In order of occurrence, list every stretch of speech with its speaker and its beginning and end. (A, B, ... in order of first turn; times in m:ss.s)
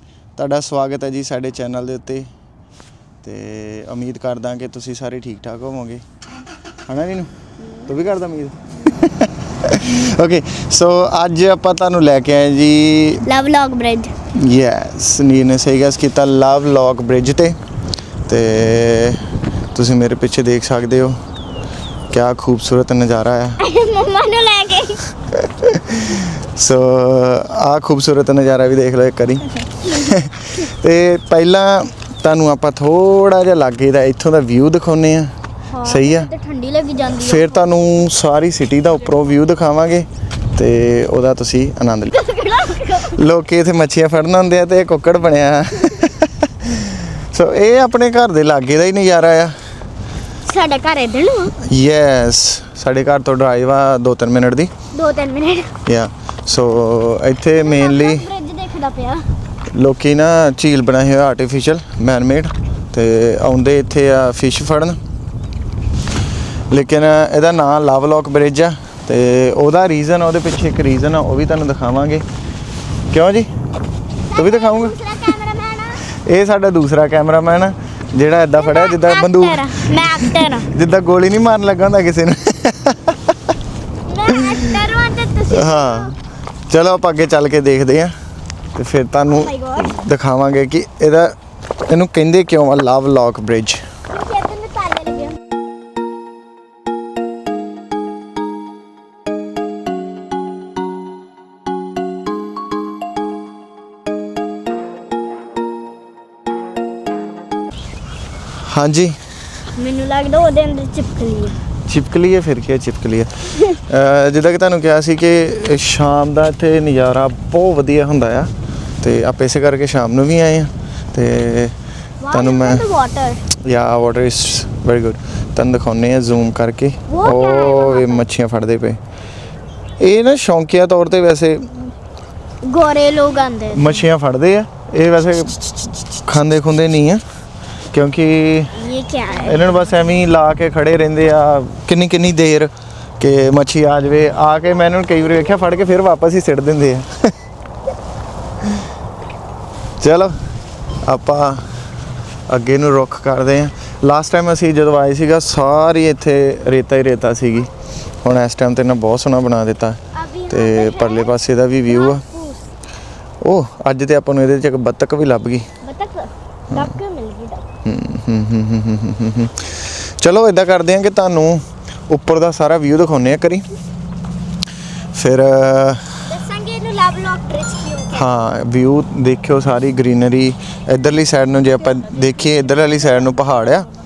0:00.4-0:02.3 A
0:03.2-0:06.0 A
0:06.9-0:07.3 A
0:07.8-0:13.3 A
0:13.2-0:14.1 B
0:14.3-0:17.6 A
0:18.3-0:21.2 A
0:22.1-0:23.6 A
0:23.6-0:25.0 B
0:25.2-0:36.3 A
0:35.7-0:37.7 B
0:37.1-0:49.6 A
0:42.1-0:43.2 B
0:50.4-0:51.6 B
0:51.6-0:54.7 A
0:54.9-0:55.8 B
0:55.8-0:58.3 A
0:57.6-0:59.3 B
0:59.7-1:05.0 A
1:06.7-1:12.2 A
1:13.1-1:13.5 A
1:14.3-1:16.1 B
1:14.3-1:15.1 A
1:16.1-1:23.4 A
1:18.6-1:20.7 B
1:24.0-1:26.1 B
1:24.4-1:24.8 A
1:25.5-1:26.2 A
1:26.7-1:28.2 A
1:28.8-1:33.8 A
1:29.3-1:30.0 B
1:34.1-1:35.4 B
1:48.6-1:49.2 A
1:49.8-1:51.6 B
1:51.9-2:01.8 A
2:02.2-2:03.4 B
2:02.3-2:02.9 A
2:03.6-2:09.0 A
2:07.1-2:08.3 B
2:10.0-2:11.9 A
2:12.6-2:14.1 B
2:13.7-2:17.2 A
2:17.9-2:18.8 A
2:18.7-2:19.8 B
2:19.4-2:27.1 A
2:30.0-2:30.4 A
2:31.0-2:31.6 A
2:32.5-2:37.7 A
2:38.2-2:42.2 A
2:40.1-2:42.7 B
2:43.4-2:45.7 A
2:45.8-2:47.7 B
2:47.8-2:53.6 A
2:55.1-2:56.2 A
2:56.3-2:58.4 B
2:58.1-3:03.9 A